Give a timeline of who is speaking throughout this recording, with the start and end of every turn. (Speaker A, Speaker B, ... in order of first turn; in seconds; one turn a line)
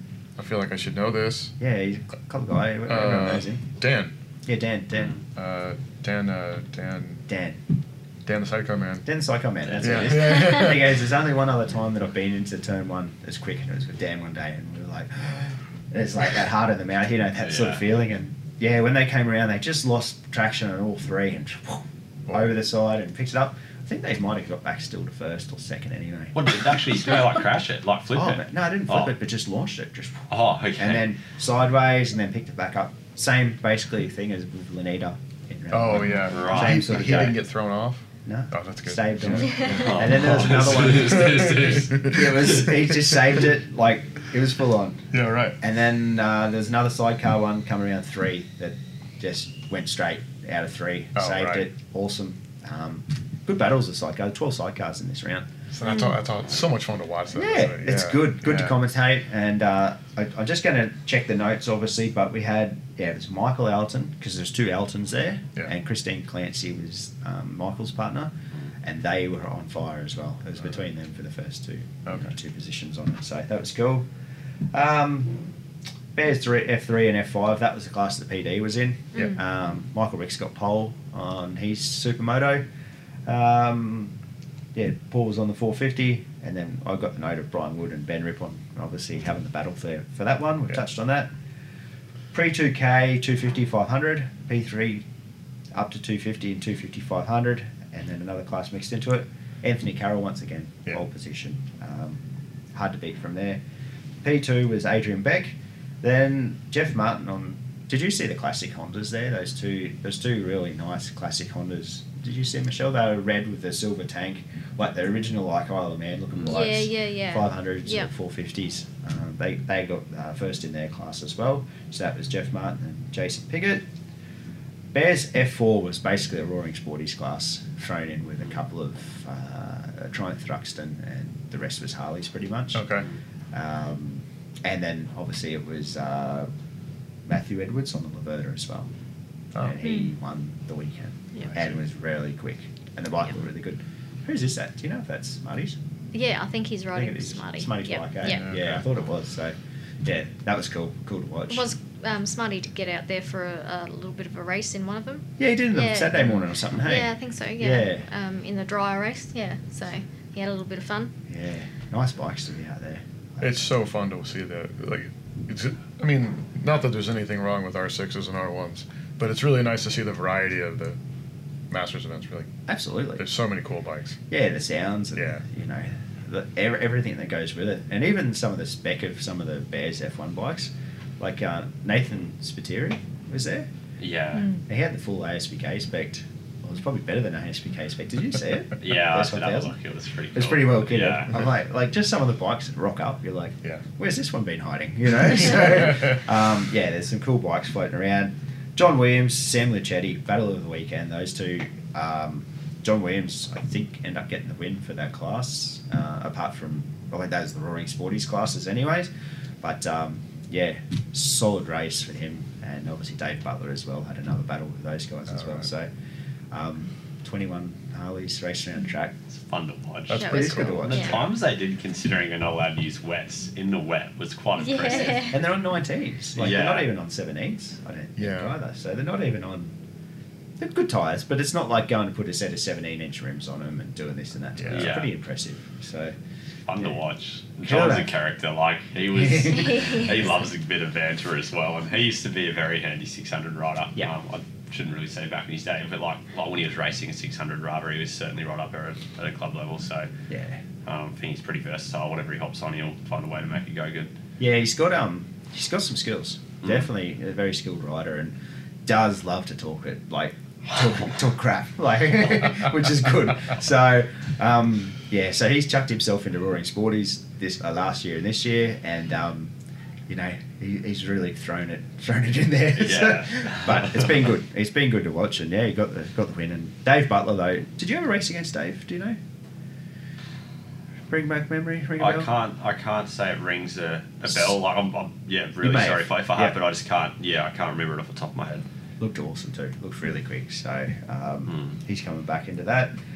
Speaker A: 0.4-1.5
Speaker B: 1.6-3.6
Speaker A: 2.9-4.1
Speaker B: 4.5-5.2
Speaker A: 5.3-7.2
Speaker B: 7.3-7.6
Speaker A: 8.2-9.1
Speaker B: 9.1-27.1
Speaker C: 9.7-10.4
Speaker A: 9.8-10.9
Speaker C: 17.4-17.8
Speaker A: 22.3-22.6
Speaker C: 26.4-29.1
Speaker B: 28.1-37.4
Speaker C: 30.3-31.0
Speaker A: 35.7-43.2
Speaker C: 36.0-37.3
Speaker B: 38.3-55.5
Speaker C: 39.7-42.6
Speaker A: 45.1-45.6
Speaker A: 51.2-51.7
Speaker A: 55.7-58.8
Speaker D: 55.8-56.2
Speaker B: 57.3-68.3
Speaker B: 68.8-74.1
Speaker A: 72.1-72.3
Speaker B: 74.7-75.4
Speaker B: 76.2-82.7
Speaker D: 79.1-79.4
Speaker B: 83.3-84.1
Speaker B: 84.8-91.3
Speaker B: 92.3-95.1
Speaker B: 95.7-102.2
Speaker B: 102.7-103.6
Speaker B: 104.2-123.9
Speaker D: 116.4-118.1
Speaker B: 124.9-132.9
Speaker A: 132.7-133.1
Speaker B: 133.5-136.5
Speaker B: 137.3-138.9
Speaker B: 139.6-145.8
Speaker D: 139.8-140.1
Speaker A: 141.4-141.8
Speaker D: 146.1-148.4
Speaker B: 146.9-151.8
Speaker A: 148.2-148.9
Speaker D: 151.5-156.2
Speaker B: 155.4-158.1
Speaker A: 156.2-156.4
Speaker D: 156.7-161.1
Speaker B: 161.3-163.7
Speaker A: 163.4-171.0
Speaker A: 171.7-172.5
Speaker B: 172.7-173.3
Speaker A: 173.2-174.2
Speaker B: 174.3-183.7
Speaker A: 175.2-175.4
Speaker C: 184.0-184.5
Speaker D: 184.4-184.6
Speaker B: 184.7-189.8
Speaker C: 188.8-191.4
Speaker B: 190.3-209.1
Speaker A: 195.8-196.1
Speaker B: 209.6-215.9
Speaker A: 215.3-215.7
Speaker B: 216.5-219.2
Speaker C: 219.3-225.4
Speaker A: 220.1-221.0
Speaker B: 220.2-221.3
Speaker D: 220.2-221.2
Speaker D: 224.6-225.4
Speaker B: 225.1-229.8
Speaker C: 226.4-226.9
Speaker A: 228.2-228.6
Speaker B: 230.6-236.1
Speaker A: 234.6-235.0
Speaker C: 234.7-235.1
Speaker C: 236.7-250.1
Speaker B: 237.6-238.1
Speaker B: 239.2-240.0
Speaker D: 239.5-240.1
Speaker B: 250.3-250.6
Speaker C: 250.8-254.1
Speaker B: 254.4-258.3
Speaker B: 258.9-269.5
Speaker B: 270.1-279.2
Speaker C: 272.8-274.3
Speaker B: 281.1-282.3
Speaker C: 282.0-288.7
Speaker B: 284.3-284.5
Speaker B: 285.6-286.6
Speaker B: 289.0-292.9